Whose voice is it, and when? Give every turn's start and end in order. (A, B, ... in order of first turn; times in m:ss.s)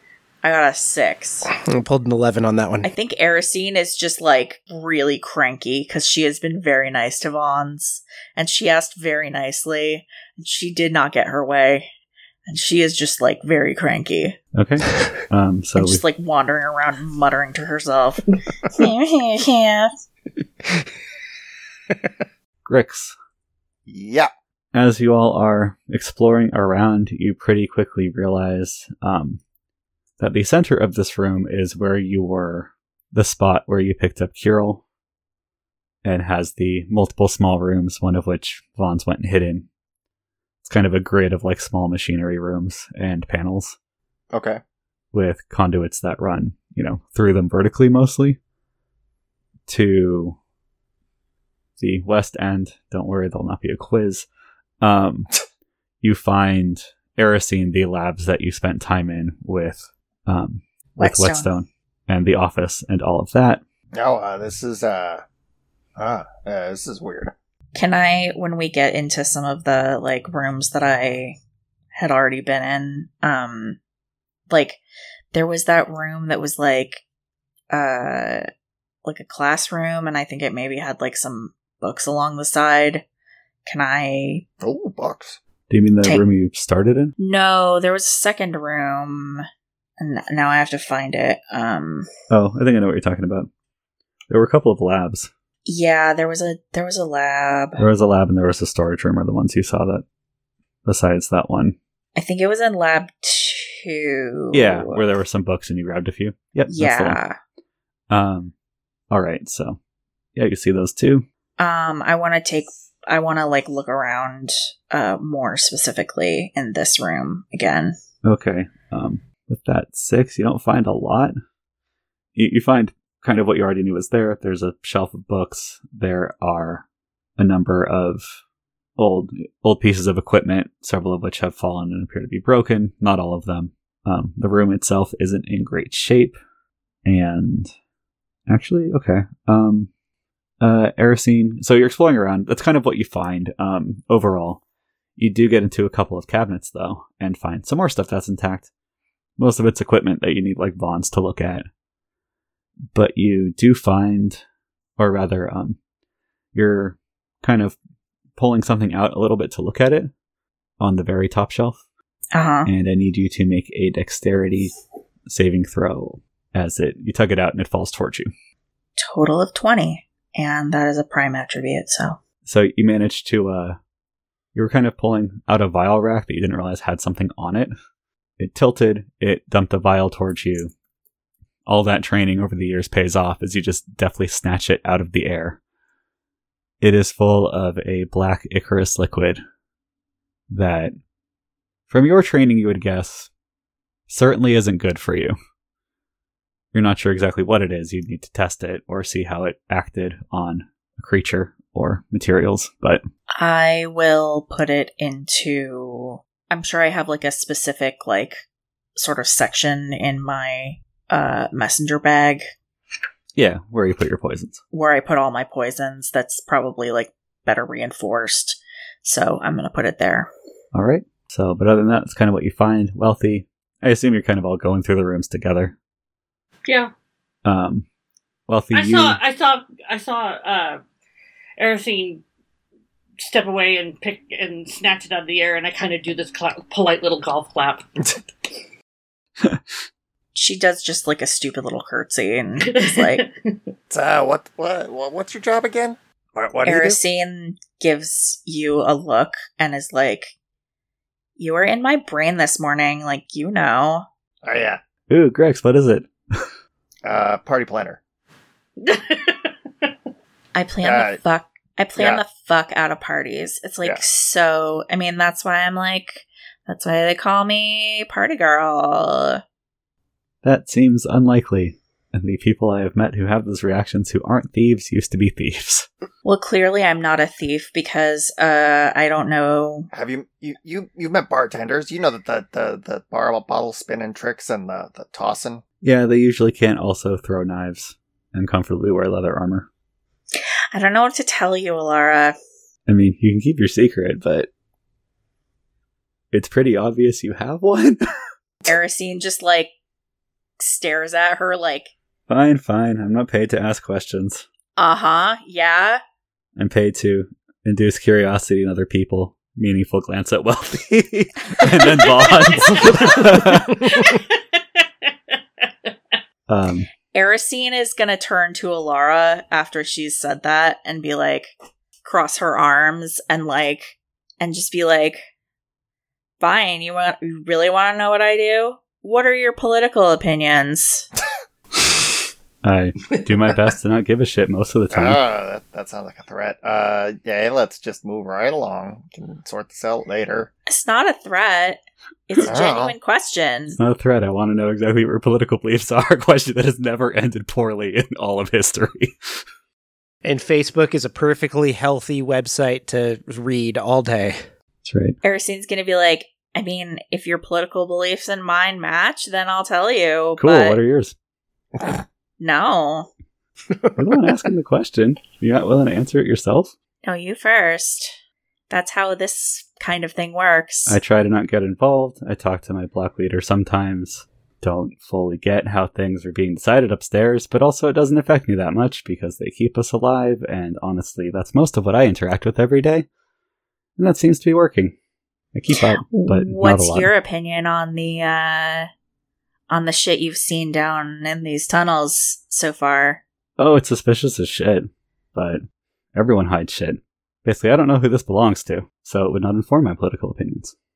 0:00.4-0:01.5 A
0:01.5-0:02.9 B
0:02.8-0:11.9 A
0:12.4-0:14.4 A
0:14.5-0:16.0 C
0:15.8-0:19.9 A
0:22.6-0:23.1 C
0:23.9-0:24.3 D
0:24.7-0:29.4 C
0:30.2-0:34.8 C
0:36.0-0:39.7 C
0:40.6-0:43.8 C
0:44.3-0:44.6 D
0:45.1-0:48.4 C
0:49.7-0:50.4 C
0:51.8-0:54.2 C
0:54.8-0:55.3 C
0:56.0-1:03.6 C
1:01.0-1:01.5 A
1:03.9-1:05.2 D
1:06.0-1:07.3 D
1:07.7-1:11.4 A
1:11.9-1:13.8 A
1:14.5-1:14.8 A
1:15.3-1:17.0 A
1:17.7-1:18.4 A
1:19.0-1:23.0 A
1:23.6-1:24.4 A
1:24.6-1:25.4 D
1:25.7-1:27.1 C
1:27.2-1:29.4 A
1:30.0-1:32.1 A
1:32.3-1:33.5 C
1:34.3-1:35.3 C
1:35.6-1:37.8 A
1:37.8-1:40.0 C
1:40.8-1:41.8 C
1:42.1-1:45.0 A
1:44.5-1:47.2 C
1:46.7-1:47.4 A
1:48.1-1:48.5 C
1:49.1-1:49.8 C
1:50.4-1:51.2 C
1:51.6-1:57.9 A
1:58.2-2:01.3 C
2:02.4-2:06.8 C
2:07.4-2:08.4 C
2:09.0-2:16.4 C
2:17.0-2:17.7 C
2:18.5-2:19.9 C
2:20.6-2:24.6 C
2:25.2-2:28.7 C
2:29.4-2:31.6 C
2:32.9-2:34.4 C
2:35.0-2:35.8 C
2:36.5-2:37.8 C
2:38.4-2:40.1 C
2:40.8-2:41.8 C
2:42.3-2:42.7 A
2:42.6-2:44.7 C
2:45.3-2:48.3 C
2:49.0-2:52.2 A
2:52.4-2:53.8 C
2:54.5-2:57.7 C
2:58.4-3:00.7 C
3:01.7-3:05.6 C
3:06.8-3:09.4 C
3:10.5-3:10.9 C
3:11.9-3:13.3 C
3:14.1-3:15.3 C
3:16.7-3:23.0 C
3:23.4-3:28.4 A
3:29.0-3:32.5 A
3:33.4-3:34.6 C
3:34.7-3:40.3 A
3:40.7-3:45.7 C
3:47.4-3:47.8 C
3:48.5-3:49.2 C
3:48.7-3:50.8 E
3:51.6-3:52.2 E
3:53.2-3:57.8 E
4:00.3-4:03.3 A
4:02.7-4:03.6 E
4:03.9-4:07.0 D
4:06.6-4:10.3 A
4:11.4-4:14.0 A
4:14.4-4:14.8 D
4:15.1-4:16.5 C
4:17.0-4:18.0 D
4:18.8-4:19.9 E
4:20.5-4:29.4 A
4:20.8-4:21.2 D
4:22.0-4:22.2 D
4:30.4-4:35.9 C
4:36.2-4:39.9 A
4:39.9-4:45.6 D
4:45.8-4:49.7 C
4:50.7-4:52.4 A
4:52.9-4:54.5 C
4:56.3-4:58.0 C
4:58.6-4:59.7 A
5:00.6-5:01.9 A
5:02.3-5:04.4 C
5:04.8-5:06.0 A
5:06.6-5:13.9 C
5:12.5-5:13.2 E
5:13.8-5:14.8 E
5:16.5-5:16.9 C
5:17.1-5:21.5 A
5:22.0-5:25.2 A
5:26.4-5:31.1 A
5:32.6-5:35.2 C
5:34.9-5:40.5 D
5:40.7-5:43.8 A
5:42.4-5:42.9 D
5:43.8-5:49.2 C
5:50.2-5:54.4 B
5:54.8-5:55.2 C
5:55.2-6:00.8 A
6:00.4-6:01.1 C
6:02.4-6:03.1 A
6:04.0-6:06.7 C
6:07.0-6:08.1 A
6:08.7-6:11.0 A
6:10.9-6:23.0 C
6:24.0-6:24.9 C
6:25.5-6:27.1 C
6:25.7-6:28.9 A
6:29.7-6:33.2 A
6:33.6-6:35.6 C
6:36.1-6:40.7 C